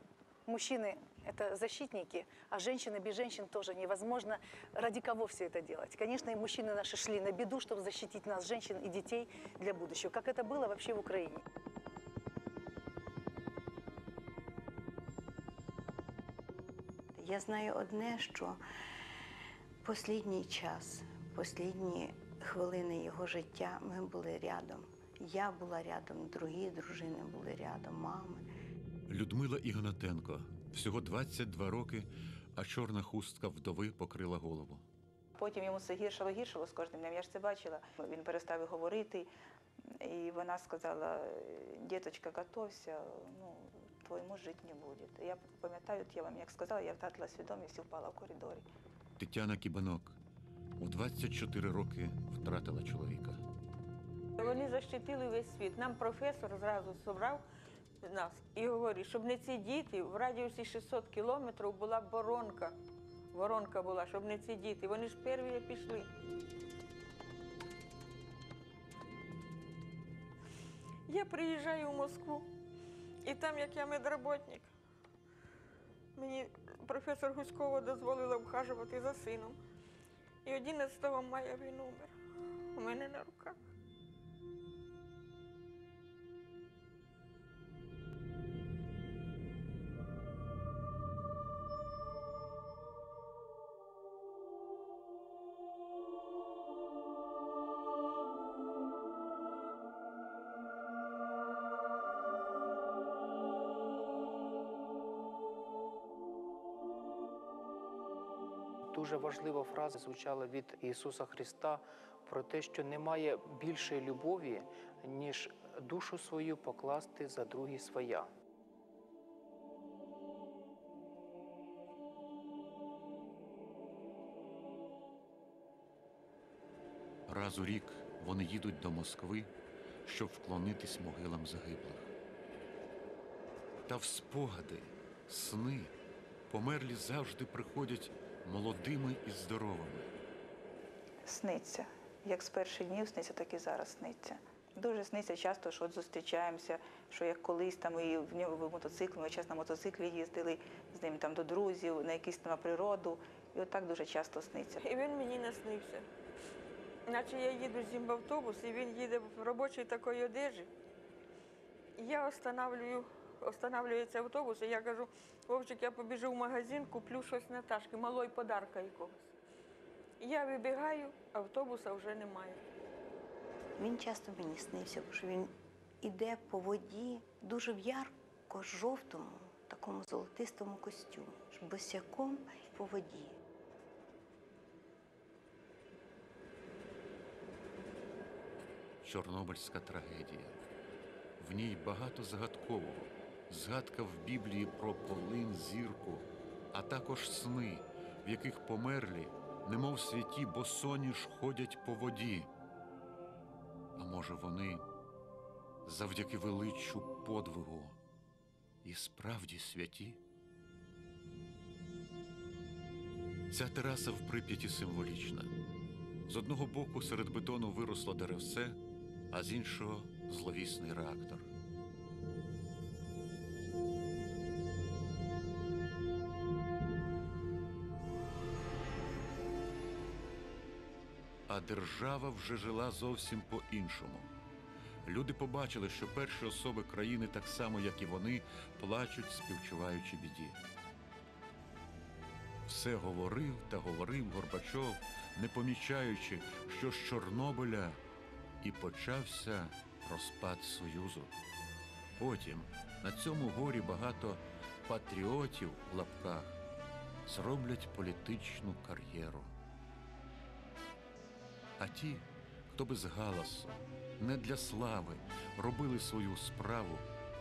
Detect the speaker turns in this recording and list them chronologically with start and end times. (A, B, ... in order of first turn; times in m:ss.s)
0:00.4-0:11.4 A
0:17.2-0:18.6 B
0:19.8-0:28.4 B
0:29.1-0:34.8 C
0:35.4-0:39.3 D
0:39.9-0:48.6 D
0:49.2-0:50.2 C
0:50.8-0:53.4 C
0:54.4-0:57.4 E
0:58.0-1:02.8 E
1:03.3-1:06.1 E
1:11.1-1:12.4 E
1:13.2-1:14.7 E
1:16.2-1:19.6 E
1:20.4-1:22.1 E
1:22.7-1:23.6 E
1:48.9-1:58.3 F
2:07.3-2:09.5 C
2:10.0-2:12.1 C
2:13.8-2:15.9 C
2:16.5-2:20.1 C
2:21.2-2:34.8 D
2:34.8-2:36.1 E
2:37.1-2:40.7 E
2:42.0-2:49.3 E
2:50.2-2:52.6 E
2:53.8-3:03.4 B
3:09.0-3:10.6 C
3:11.4-3:22.5 C
3:24.0-3:24.8 C
3:25.8-3:28.0 C
3:28.8-3:30.2 C
3:33.5-3:35.5 C
3:36.2-3:41.5 C
3:51.5-3:54.3 C
3:55.0-4:00.6 C
4:02.6-4:08.0 C
4:08.6-4:11.3 C
4:12.2-4:16.6 C
4:17.2-4:19.5 C
4:21.8-4:27.1 C